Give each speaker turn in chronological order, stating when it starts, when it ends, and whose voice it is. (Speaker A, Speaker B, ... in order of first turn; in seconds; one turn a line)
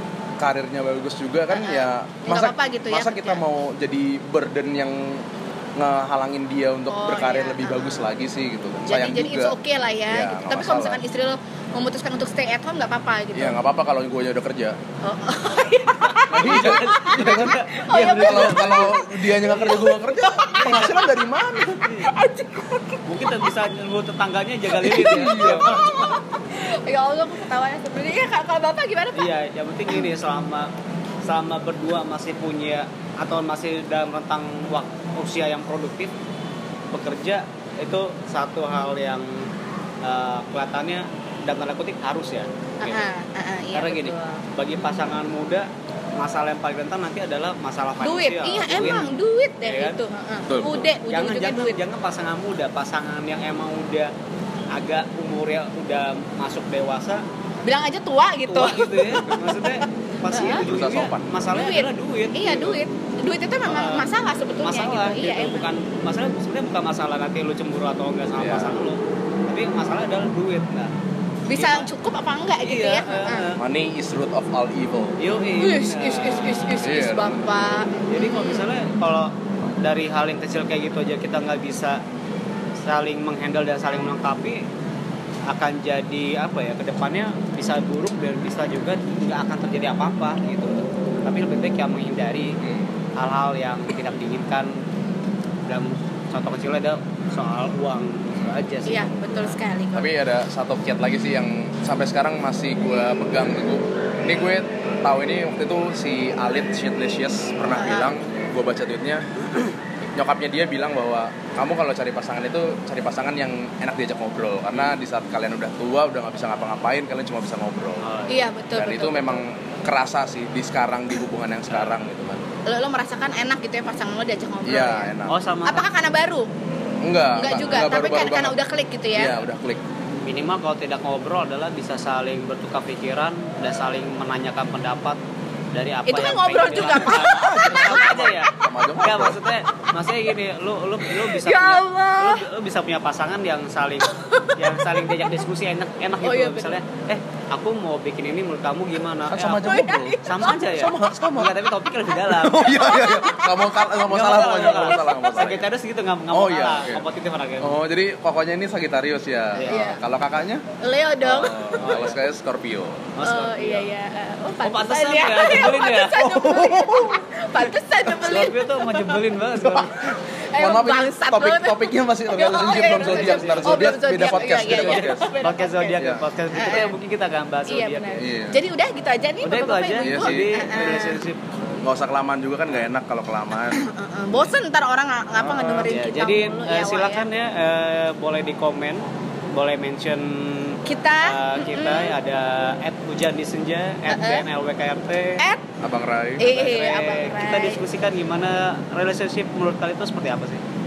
Speaker A: 0.4-9.6
Speaker B: 1.5-3.4
Speaker B: 6.9-8.2
Speaker B: 8.9-13.6
Speaker A: 10.1-11.0
Speaker A: 13.3-14.8
Speaker B: 15.0-21.1
Speaker C: 16.1-19.9
Speaker A: 16.3-21.8
Speaker C: 20.6-20.9
Speaker C: 21.8-22.1
Speaker B: 22.0-23.5
Speaker C: 23.1-26.2
Speaker B: 24.8-29.3
Speaker A: 24.9-25.8
Speaker C: 29.1-30.7
Speaker C: 31.2-36.1
Speaker C: 36.9-39.5
Speaker C: 40.0-43.1
Speaker B: 42.8-44.5
Speaker C: 43.7-45.7
Speaker C: 46.2-49.1
Speaker B: 48.0-51.8
Speaker A: 48.7-49.0
Speaker C: 49.6-50.0
Speaker A: 50.5-50.9
Speaker C: 50.9-54.1
Speaker C: 54.7-57.2
Speaker B: 57.6-59.6
Speaker C: 58.5-62.8
Speaker B: 60.3-60.7
Speaker A: 60.4-61.3
Speaker B: 61.5-65.6
Speaker C: 63.6-64.1
Speaker C: 64.6-70.9
Speaker A: 68.4-68.8
Speaker B: 71.5-73.5
Speaker C: 71.5-71.9
Speaker C: 72.6-73.6
Speaker A: 73.6-75.2
Speaker C: 75.2-77.0
Speaker B: 75.6-78.7
Speaker A: 76.8-77.5
Speaker C: 78.1-82.0
Speaker C: 82.8-84.7
Speaker C: 85.5-92.6
Speaker A: 92.6-92.9
Speaker C: 93.2-94.8
Speaker C: 95.7-99.6
Speaker B: 98.9-100.1
Speaker A: 99.9-109.3
Speaker B: 107.8-108.1
Speaker A: 110.2-118.1
Speaker C: 118.0-118.5
Speaker B: 118.3-119.4
Speaker A: 118.8-122.4
Speaker C: 121.7-122.1
Speaker B: 122.7-125.1
Speaker A: 124.7-125.4
Speaker C: 125.3-125.9
Speaker B: 125.7-126.5
Speaker A: 127.0-128.6
Speaker B: 127.3-129.4
Speaker A: 129.1-129.8
Speaker C: 130.2-135.2
Speaker C: 135.7-153.0
Speaker B: 136.1-138.5
Speaker A: 137.1-139.4
Speaker B: 141.2-142.4
Speaker B: 144.2-144.6
Speaker B: 146.2-146.8
Speaker A: 149.3-151.6
Speaker B: 149.6-150.5
Speaker A: 152.3-155.7
Speaker B: 152.7-155.5
Speaker C: 154.1-157.7
Speaker A: 156.3-157.1
Speaker A: 157.6-160.6
Speaker B: 159.7-160.0
Speaker B: 160.8-162.1
Speaker A: 161.2-163.1
Speaker C: 161.8-162.2
Speaker C: 163.2-163.9
Speaker B: 163.2-169.2
Speaker C: 164.6-166.4
Speaker A: 166.3-167.2
Speaker C: 168.2-170.0
Speaker A: 169.6-170.0
Speaker B: 170.3-177.0
Speaker A: 170.6-175.3
Speaker C: 172.8-173.9
Speaker C: 174.6-178.2
Speaker A: 176.0-176.2
Speaker B: 177.7-181.2
Speaker A: 178.2-178.6
Speaker C: 179.4-181.4
Speaker A: 180.0-180.8
Speaker A: 181.8-183.8
Speaker B: 183.7-187.3
Speaker C: 185.4-195.4
Speaker B: 190.8-192.2
Speaker B: 194.1-194.5
Speaker B: 195.4-195.6
Speaker A: 195.8-196.5
Speaker B: 196.4-197.8
Speaker C: 196.4-200.6